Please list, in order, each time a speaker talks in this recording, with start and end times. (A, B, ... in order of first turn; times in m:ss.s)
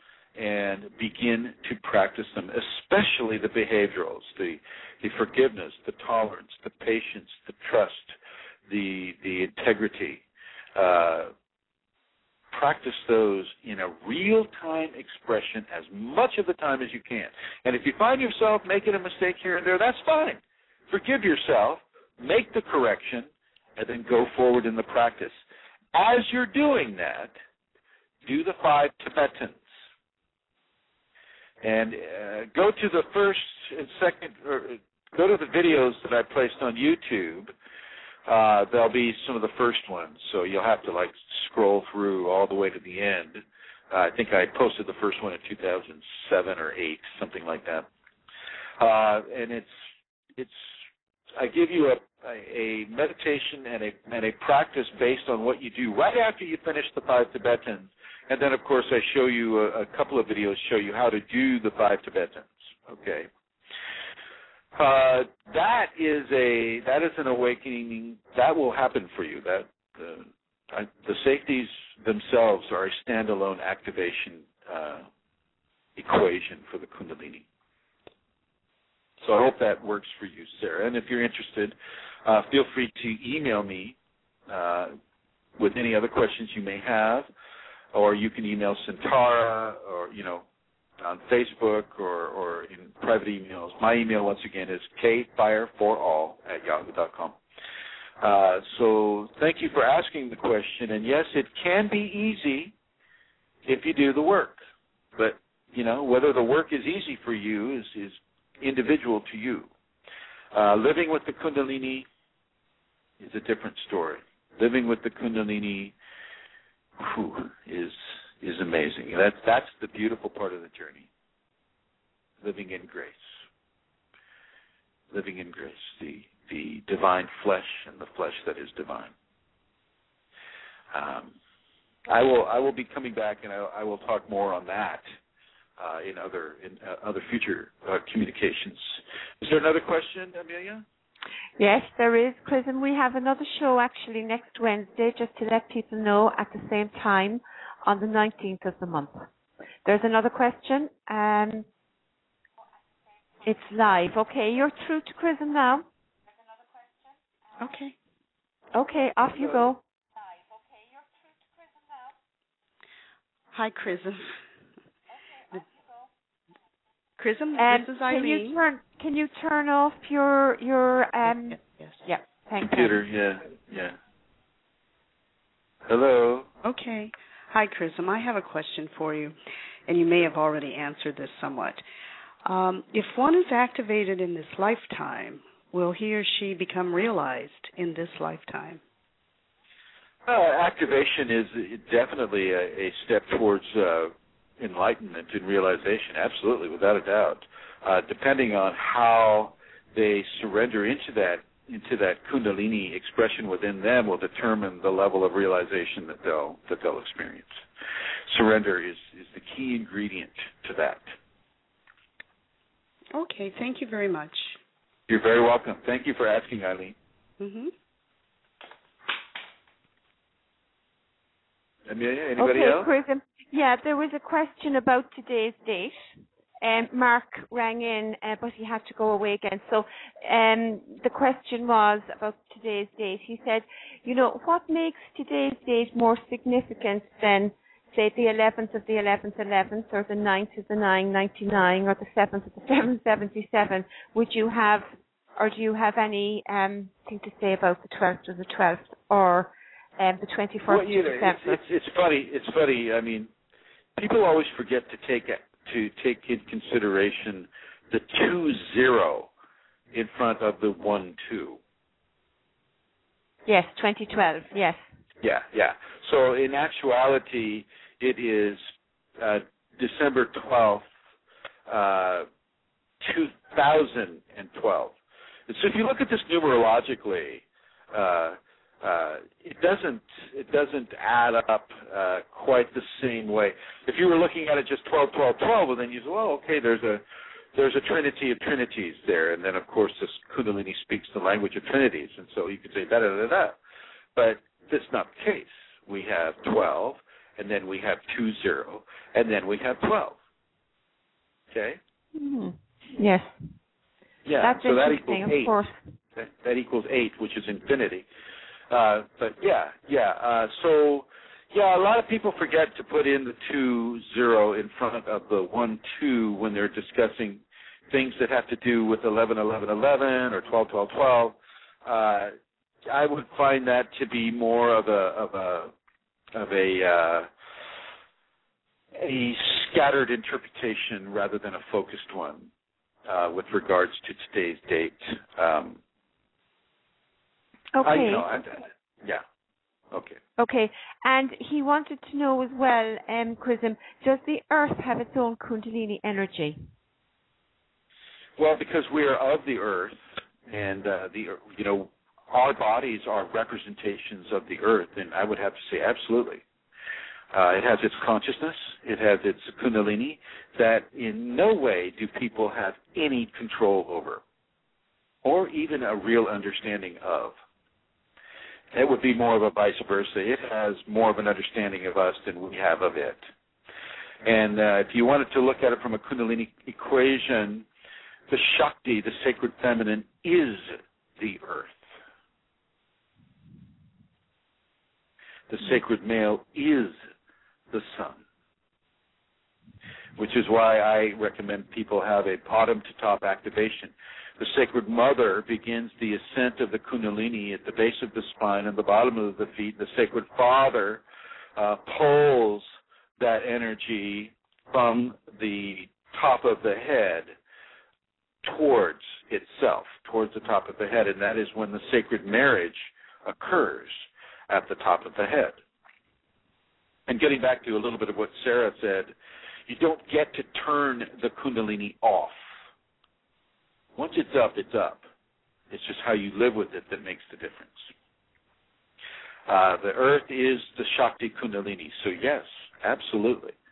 0:00.4-0:08.2 A
0:08.7-0:10.2 A
0:10.8-0:11.3 A
0:12.5-0:25.4 A
0:25.9-0:27.3 A
0:28.2-0:29.7 A
0:31.6-0:37.5 A
0:38.3-0:47.9 A
0:48.8-0:49.8 A
0:50.4-0:50.8 A
0:51.4-1:03.3 A
1:04.8-1:15.1 A
1:16.0-1:17.5 A
1:19.2-1:24.0 A
1:24.5-1:24.9 A
1:25.6-1:27.3 A
1:27.9-1:30.4 A
1:31.0-1:37.4 A
1:38.2-1:42.7 A
1:43.7-1:44.6 A
1:45.2-1:49.7 A
1:50.5-1:52.1 A
1:53.2-1:56.0 A
1:57.0-2:01.1 A
2:02.4-2:03.3 A
2:05.1-2:09.1 A
2:10.9-2:11.3 A
2:12.1-2:15.0 A
2:15.8-2:20.8 A
2:21.6-2:29.2 B
2:29.8-2:31.7 B
2:33.4-2:35.9 B
2:37.6-2:38.0 C
2:38.8-2:39.8 B
2:43.5-2:44.3 C
2:47.2-2:48.6 C
2:47.6-2:53.0 B
2:52.6-2:54.0 A
2:55.9-2:56.5 A
2:56.6-2:59.3 C
2:59.9-3:01.8 C
3:02.5-3:08.8 C
3:10.3-3:27.6 A
3:28.3-3:31.1 A
3:33.1-3:34.6 C
3:35.1-3:37.0 A
3:37.4-3:37.7 C
3:41.9-3:42.9 A
3:42.4-3:46.0 B
3:46.6-4:11.6 B
4:10.7-4:13.3 A
4:14.0-4:19.3 A
4:19.9-4:21.6 A
4:23.5-4:24.8 B
4:25.2-4:28.6 A
4:29.2-4:30.8 A
4:31.7-4:32.3 A
4:33.0-4:35.0 A
4:35.5-4:47.0 A
4:47.6-4:53.6 A
4:54.2-5:00.2 A
5:01.5-5:01.8 A
5:02.2-5:03.3 B
5:04.2-5:05.5 A
5:04.4-5:05.8 B
5:06.2-5:08.1 A
5:08.7-5:22.3 A
5:22.9-5:25.7 A
5:26.3-5:27.3 A
5:29.0-5:32.5 A
5:33.1-5:35.8 A
5:37.8-5:38.3 B
5:37.8-5:39.2 A
5:39.9-5:40.2 A
5:40.4-5:46.6 B
5:48.4-5:56.4 A
5:57.3-6:04.2 A
6:05.2-6:07.4 A
6:08.7-6:13.2 A
6:14.2-6:17.7 A
6:18.3-6:21.9 A
6:25.5-6:27.0 A
6:27.7-6:28.2 A
6:30.2-6:41.0 A
6:41.6-6:42.7 A
6:43.2-6:47.3 A
6:48.4-6:55.6 A
6:57.1-6:59.1 A
6:59.7-7:02.4 A
7:04.0-7:05.0 A
7:05.7-7:07.9 A
7:09.5-7:13.6 A